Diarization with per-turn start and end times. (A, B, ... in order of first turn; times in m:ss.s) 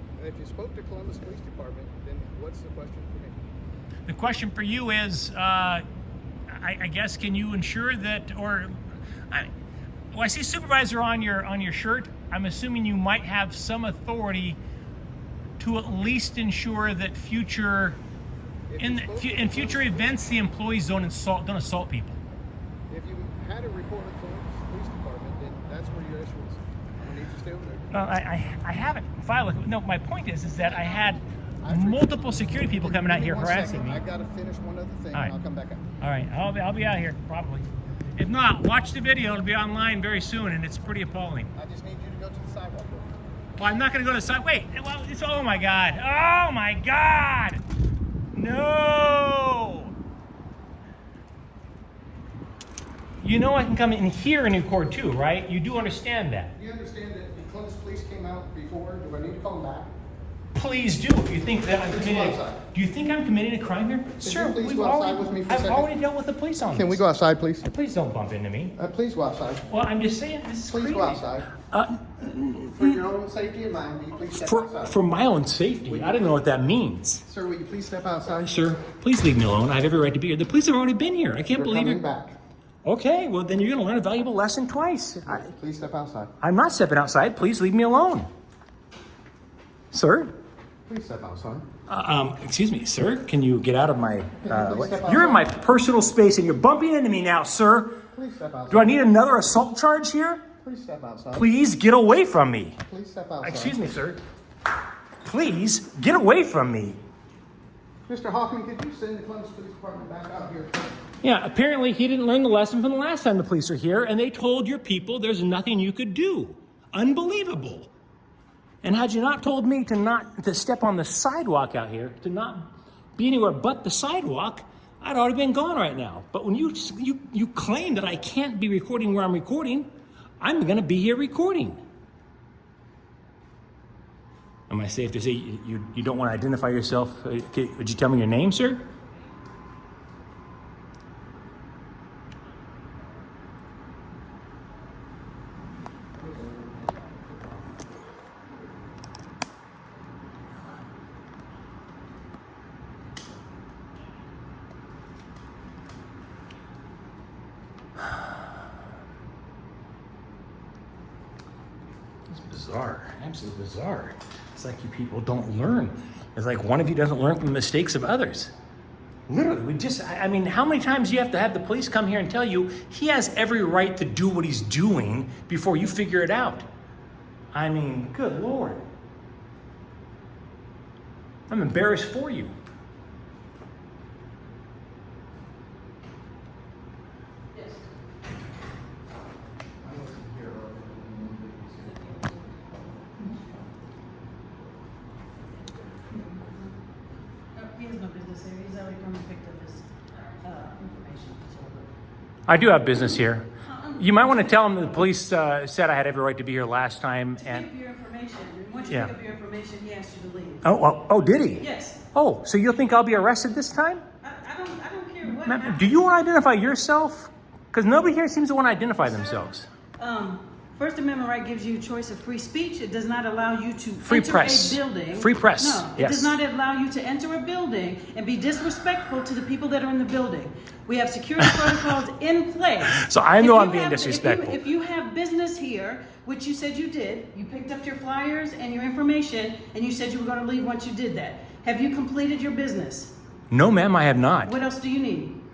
0:00.2-0:03.4 A
0:04.1-0:05.8 B
0:06.5-0:08.7 B
0:10.1-0:14.6 B
0:15.6-0:18.0 B
0:18.7-0:20.3 A
0:18.8-0:22.2 B
0:22.9-0:28.0 A
0:27.9-0:34.0 B
0:31.6-0:35.8 A
0:36.0-0:41.5 B
0:41.6-0:43.1 A
0:43.6-0:47.6 B
0:48.3-0:49.9 B
0:53.2-0:56.5 B
0:56.6-0:59.9 A
1:00.5-1:07.0 B
1:01.8-1:02.6 A
1:04.2-1:05.9 A
1:06.7-1:07.7 A
1:07.7-1:08.8 B
1:08.8-1:09.6 A
1:09.7-1:12.9 B
1:10.7-1:11.5 A
1:12.5-1:15.0 A
1:14.3-1:17.2 B
1:15.8-1:16.3 A
1:17.2-1:18.7 A
1:18.4-1:22.0 B
1:21.5-1:22.4 A
1:22.8-1:25.5 B
1:25.3-1:26.3 A
1:26.4-1:28.3 B
1:29.9-1:30.3 B
1:30.9-1:31.6 A
1:31.9-1:38.0 B
1:34.4-1:35.5 A
1:38.1-1:39.0 A
1:38.7-1:40.4 B
1:40.6-1:41.5 A
1:41.3-1:42.8 B
1:42.9-1:43.8 A
1:43.4-1:44.2 B
1:45.2-1:47.0 B
1:48.0-1:51.0 A
1:51.2-1:57.9 B
1:58.8-2:09.9 B
2:10.4-2:11.8 B
2:14.7-2:18.8 B
2:42.3-2:48.5 B
2:49.3-2:56.7 B
2:57.5-2:58.8 B
3:01.5-3:02.5 B
3:09.8-3:12.4 A
3:17.5-3:19.9 C
3:20.4-3:21.9 C
3:22.5-3:23.5 B
3:23.6-3:25.1 C
3:24.0-3:27.6 B
3:27.4-3:30.6 C
3:28.9-3:29.1 B
3:30.6-3:34.0 B
3:31.6-3:32.0 C
3:34.2-3:36.1 C
3:35.2-3:39.7 B
3:39.0-4:03.1 C
3:44.0-3:46.4 B
3:51.4-3:51.8 B
3:52.9-3:54.6 B
4:03.5-4:04.5 B
4:04.4-4:05.4 C